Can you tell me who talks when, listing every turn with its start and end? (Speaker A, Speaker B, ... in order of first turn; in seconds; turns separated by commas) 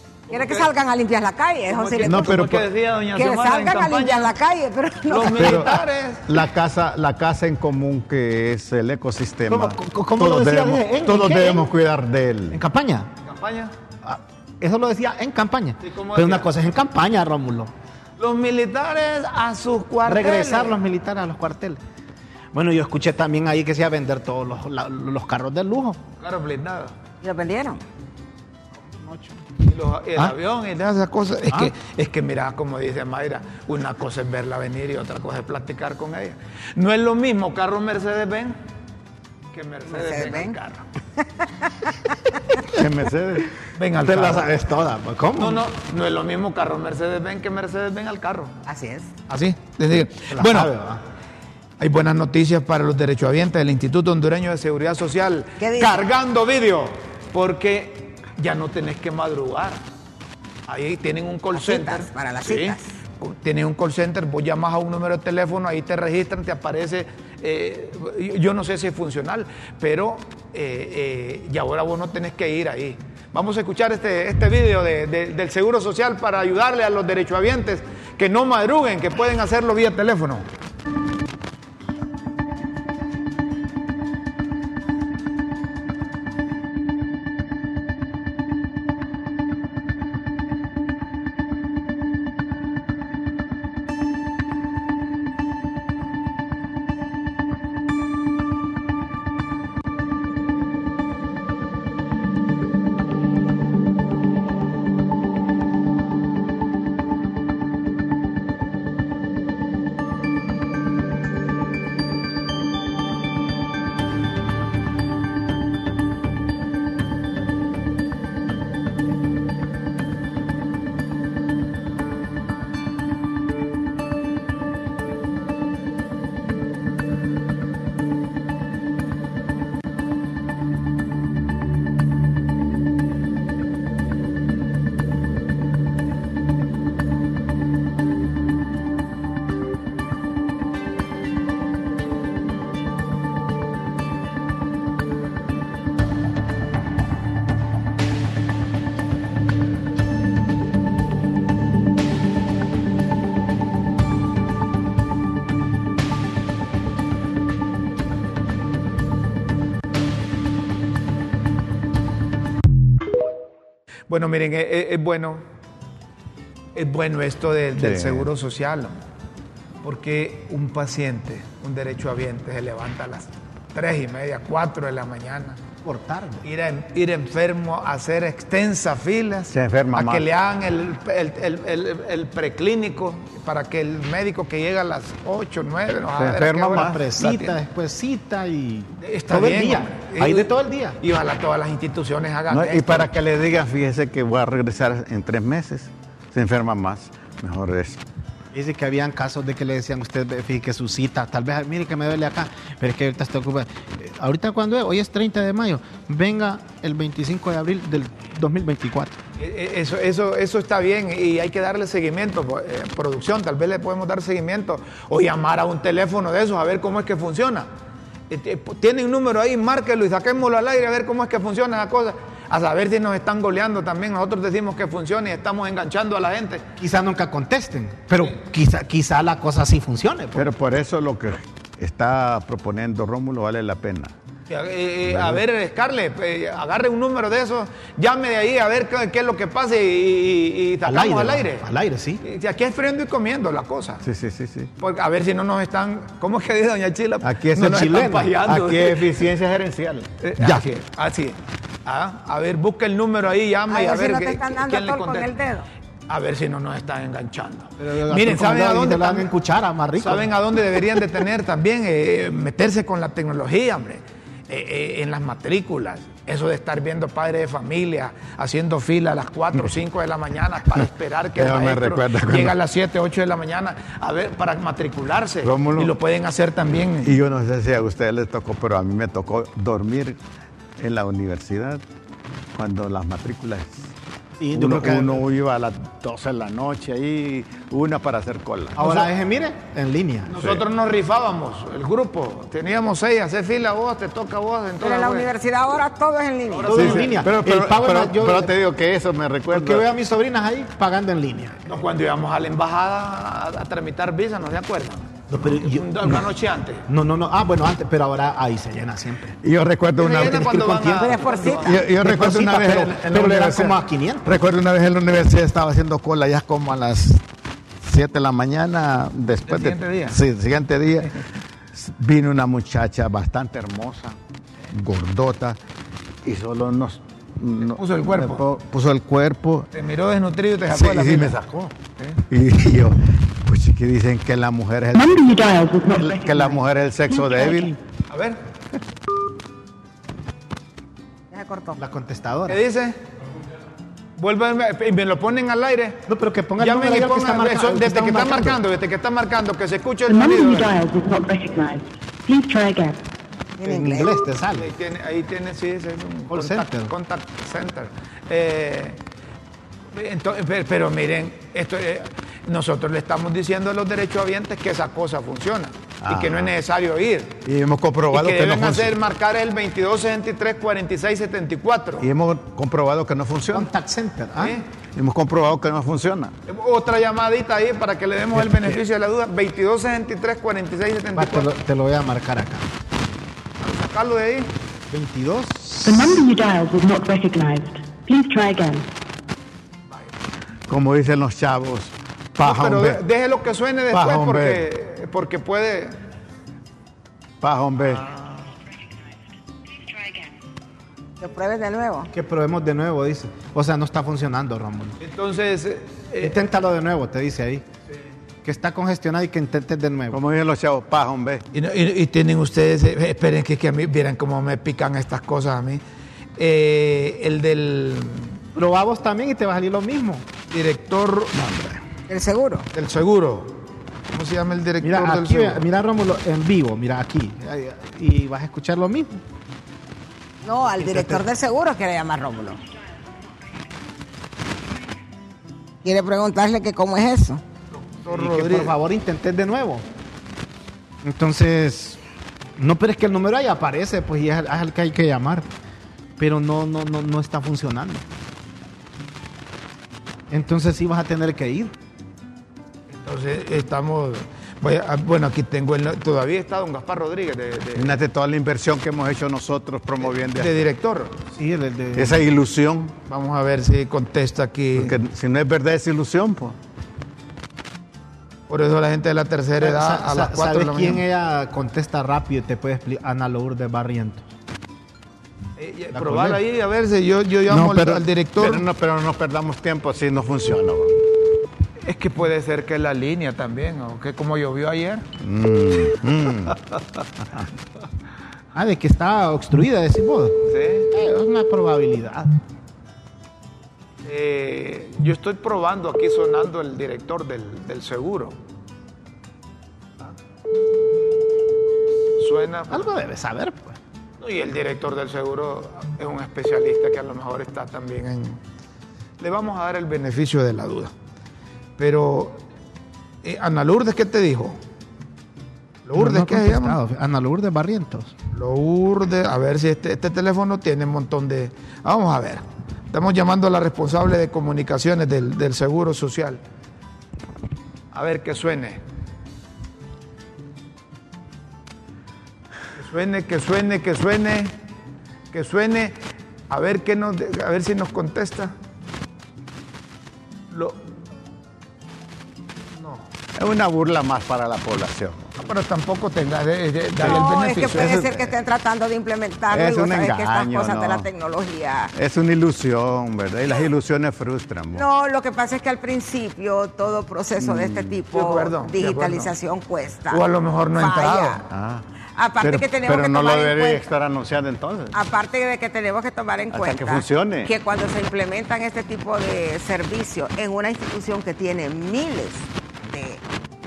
Speaker A: 0.3-0.7, Speaker B: 0.3-2.4, Speaker A: 1.7-4.3, Speaker C: 2.0-2.6, Speaker B: 3.1-5.6, Speaker A: 5.1-6.4, Speaker C: 5.4-12.6, Speaker D: 9.5-11.7, Speaker D: 12.5-13.1, Speaker A: 13.2-13.7, Speaker D: 14.0-17.7, Speaker A: 15.8-16.5, Speaker A: 18.2-20.8, Speaker D: 20.1-21.8, Speaker D: 22.5-26.0, Speaker A: 26.2-26.9, Speaker B: 27.2-27.8, Speaker D: 28.7-29.4, Speaker A: 29.6-38.5, Speaker A: 39.5-40.8, Speaker B: 39.9-40.5, Speaker B: 41.2-42.4, Speaker C: 42.6-43.5, Speaker A: 43.7-44.5, Speaker D: 44.0-45.6, Speaker A: 45.4-48.5, Speaker B: 48.6-49.1, Speaker A: 49.3-50.7, Speaker D: 50.3-51.0, Speaker A: 51.8-59.8, Speaker B: 55.6-56.0, Speaker A: 60.7-80.5, Speaker B: 61.5-62.9, Speaker A: 164.1-165.4, Speaker A: 166.7-168.9, Speaker C: 167.8-168.3, Speaker A: 169.8-175.6, Speaker D: 175.8-176.4, Speaker A: 176.4-187.5, Speaker C: 179.5-180.2, Speaker C: 186.2-187.0, Speaker D: 186.7-191.0, Speaker A: 189.0-193.1, Speaker C: 192.5-198.0, Speaker D: 198.5-209.2, Speaker A: 209.4-217.7, Speaker A: 218.3-226.6, Speaker D: 226.8-230.5, Speaker C: 230.3-234.1, Speaker A: 234.5-241.7, Speaker C: 235.1-235.4, Speaker D: 240.8-242.2, Speaker A: 242.2-244.0, Speaker C: 244.0-244.7, Speaker A: 244.8-249.1, Speaker C: 247.2-250.6, Speaker D: 247.6-248.3, Speaker A: 250.2-255.3, Speaker B: 253.7-255.7, Speaker A: 256.1-259.3, Speaker D: 257.8-260.3, Speaker A: 260.0-277.2, Speaker C: 271.4-272.5, Speaker C: 275.4-275.9, Speaker C: 277.0-280.2, Speaker C: 280.8-281.8, Speaker C: 282.5-283.9, Speaker D: 284.4-285.2, Speaker C: 284.5-289.0, Speaker D: 288.8-290.4, Speaker A: 290.3-295.3, Speaker B: 294.8-296.7, Speaker A: 296.5-297.2, Speaker D: 296.7-298.5, Speaker C: 296.7-299.8, Speaker D: 299.5-301.6, Speaker A: 301.6-306.9, Speaker D: 305.3-306.3, Speaker D: 306.9-309.4, Speaker C: 309.4-310.8, Speaker A: 309.9-311.9, Speaker D: 310.4-314.3, Speaker B: 310.9-311.8, Speaker C: 311.5-317.2, Speaker C: 317.8-321.2, Speaker A: 319.5-320.2, Speaker C: 321.7-324.2, Speaker C: 324.7-325.6, Speaker C: 326.2-329.7, Speaker A: 327.6-328.4, Speaker A: 329.7-331.4, Speaker C: 330.7-331.7, Speaker C: 332.2-337.8, Speaker E: 334.9-336.6, Speaker E: 337.1-337.8, Speaker A: 338.1-338.4, Speaker B: 341.3-341.8, Speaker D: 341.8-342.6, Speaker A: 342.5-343.0, Speaker A: 344.2-346.0, Speaker D: 346.1-348.6, Speaker A: 346.6-350.8, Speaker E: 350.1-353.0, Speaker B: 353.6-354.2, Speaker D: 353.6-354.7, Speaker A: 354.5-359.0, Speaker D: 356.3-356.9, Speaker A: 359.9-367.4, Speaker C: 366.0-366.5, Speaker C: 367.4-368.9, Speaker A: 368.1-372.1, Speaker C: 372.0-373.7, Speaker D: 373.5-374.6, Speaker A: 374.4-374.6, Speaker C: 374.9-376.3, Speaker A: 376.5-381.5, Speaker C: 378.4-378.8, Speaker D: 381.1-382.6, Speaker A: 383.6-384.5, Speaker D: 384.9-386.1, Speaker E: 385.8-388.9, Speaker C: 390.7-393.0, Speaker A: 392.4-395.9, Speaker C: 393.9-394.6, Speaker C: 397.4-398.1, Speaker A: 398.0-398.4, Speaker B: 401.2-402.1, Speaker D: 402.1-405.0, Speaker A: 405.0-406.4, Speaker D: 406.2-407.6, Speaker D: 408.4-410.2, Speaker C: 410.1-411.4, Speaker A: 411.5-415.8, Speaker A: 416.4-418.4, Speaker D: 418.5-420.3, Speaker A: 420.5-421.8, Speaker B: 422.1-422.7, Speaker A: 422.7-423.6, Speaker A: 424.1-425.6, Speaker D: 424.8-429.2, Speaker B: 430.4-432.6, Speaker D: 430.8-431.2, Speaker B: 435.8-437.4, Speaker A: 437.7-438.7, Speaker D: 438.1-439.8, Speaker D: 441.0-442.0, Speaker D: 442.6-445.5, Speaker D: 446.2-448.1, Speaker D: 450.3-451.7, Speaker A: 452.9-458.0, Speaker C: 457.8-460.6, Speaker A: 460.1-461.1, Speaker D: 461.3-462.2, Speaker C: 461.9-462.9, Speaker A: 463.1-465.0, Speaker C: 464.8-466.6, Speaker A: 468.5-471.0, Speaker D: 469.6-474.3, Speaker A: 475.6-478.6, Speaker C: 475.9-476.4, Speaker C: 477.5-481.0, Speaker A: 481.8-485.1, Speaker C: 485.2-486.6, Speaker D: 488.5-490.4, Speaker A: 490.5-490.9, Speaker D: 490.9-492.3, Speaker A: 494.0-498.4, Speaker A: 502.2-502.9, Speaker D: 502.7-503.8, Speaker A: 504.2-508.4, Speaker A: 509.2-510.9, Speaker A: 511.8-512.4, Speaker A: 513.2-514.6, Speaker A: 515.9-516.8, Speaker D: 515.9-518.1, Speaker A: 518.3-526.4, Speaker A: 527.9-528.8, Speaker A: 532.7-534.5, Speaker A: 535.3-538.5, Speaker A: 540.5-540.8, Speaker A: 542.8-543.0, Speaker C: 543.4-545.3, Speaker A: 545.4-548.0, Speaker C: 547.0-548.3, Speaker B: 547.0-551.9, Speaker C: 549.5-551.1, Speaker C: 551.9-554.8, Speaker B: 554.7-560.2, Speaker C: 557.4-558.0, Speaker A: 558.1-559.3, Speaker A: 560.1-561.4, Speaker B: 560.7-561.4, Speaker C: 561.5-561.8, Speaker B: 562.1-563.9, Speaker C: 562.4-564.9, Speaker B: 564.9-573.2, Speaker C: 566.5-567.5